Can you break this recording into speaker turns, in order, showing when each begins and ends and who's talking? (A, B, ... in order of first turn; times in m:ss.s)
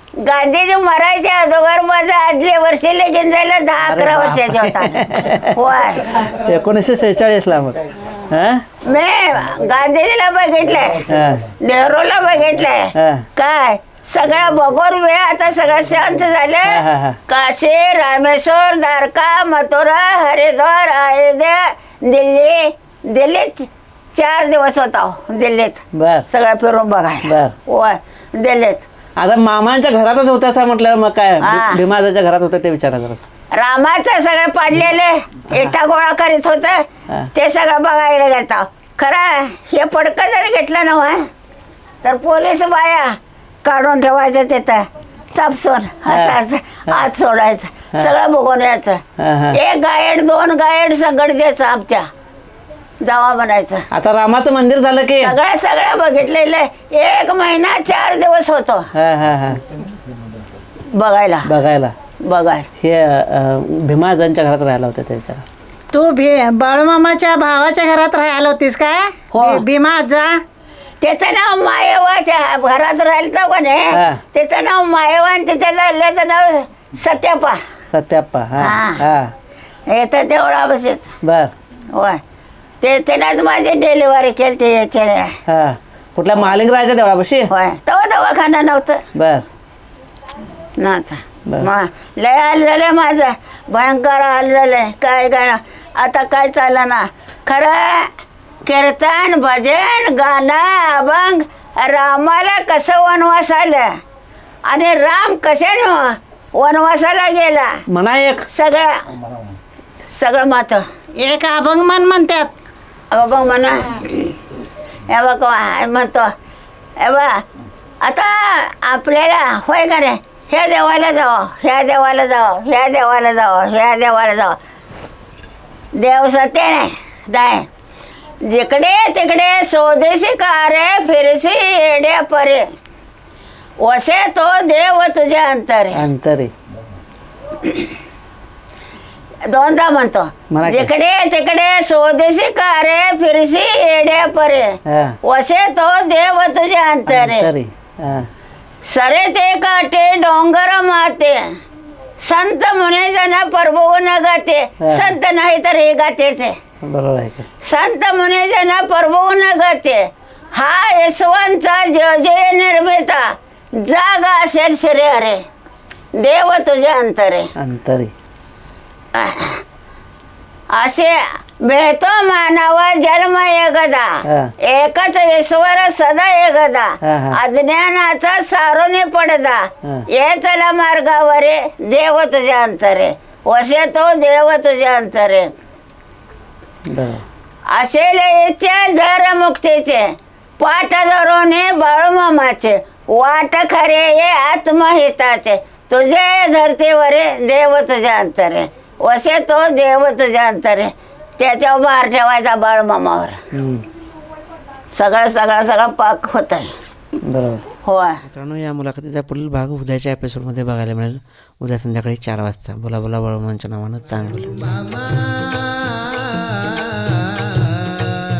0:00.2-0:06.2 A
0:03.8-0:05.6 B
0:06.2-0:08.6 B
0:08.8-0:11.0 A
0:11.1-0:11.5 B
0:11.6-0:28.8 A
0:12.9-0:13.2 B
0:16.7-0:17.2 B
0:25.9-0:26.2 B
0:27.2-0:27.5 B
0:29.2-0:33.2 B
0:31.4-0:31.8 A
0:33.5-0:36.8 A
0:37.3-0:41.3 A
0:42.0-0:49.0 A
0:46.1-0:46.4 B
0:49.2-0:49.6 B
0:49.5-0:52.0 A
0:53.0-0:53.8 A
0:53.9-0:55.3 B
0:55.2-0:58.9 A
0:58.9-0:59.6 B
1:00.9-1:01.5 A
1:01.4-1:01.9 B
1:02.2-1:02.7 A
1:02.8-1:05.4 B
1:05.9-1:10.4 C
1:09.3-1:09.6 A
1:11.0-1:17.6 A
1:13.9-1:14.2 B
1:17.9-1:19.3 B
1:18.6-1:19.0 A
1:19.9-1:21.1 A
1:21.2-1:21.5 B
1:21.9-1:22.2 A
1:22.8-1:25.4 A
1:25.5-1:27.5 B
1:27.5-1:29.0 A
1:29.1-1:29.4 B
1:30.8-1:38.1 A
1:38.6-1:43.9 A
1:44.6-1:47.8 A
1:47.9-1:48.5 B
1:48.5-1:49.0 A
1:50.1-1:50.8 A
1:51.2-1:52.5 C
1:53.1-1:54.4 A
1:55.1-1:56.3 A
1:57.0-1:57.4 A
1:58.0-2:04.6 A
2:05.9-2:07.7 A
2:08.4-2:12.6 A
2:13.8-2:16.0 A
2:15.9-2:16.5 B
2:17.6-2:17.9 A
2:19.5-2:27.5 A
2:20.5-2:20.9 B
2:24.8-2:25.2 B
2:27.1-2:28.3 B
2:28.8-2:31.5 A
2:32.2-2:36.6 A
2:34.8-2:35.1 B
2:36.8-2:37.5 B
2:37.6-2:45.4 A
2:46.2-2:47.5 A
2:47.6-2:48.1 B
2:49.1-2:49.6 A
2:50.7-3:05.5 A
2:54.2-2:54.5 B
2:57.0-2:57.4 B
3:06.9-3:07.2 B
3:07.7-3:23.4 A
3:23.5-3:23.8 B
3:24.9-3:26.7 A
3:27.2-3:27.6 B
3:27.8-3:28.2 A
3:28.3-3:34.5 B
3:34.1-3:38.1 D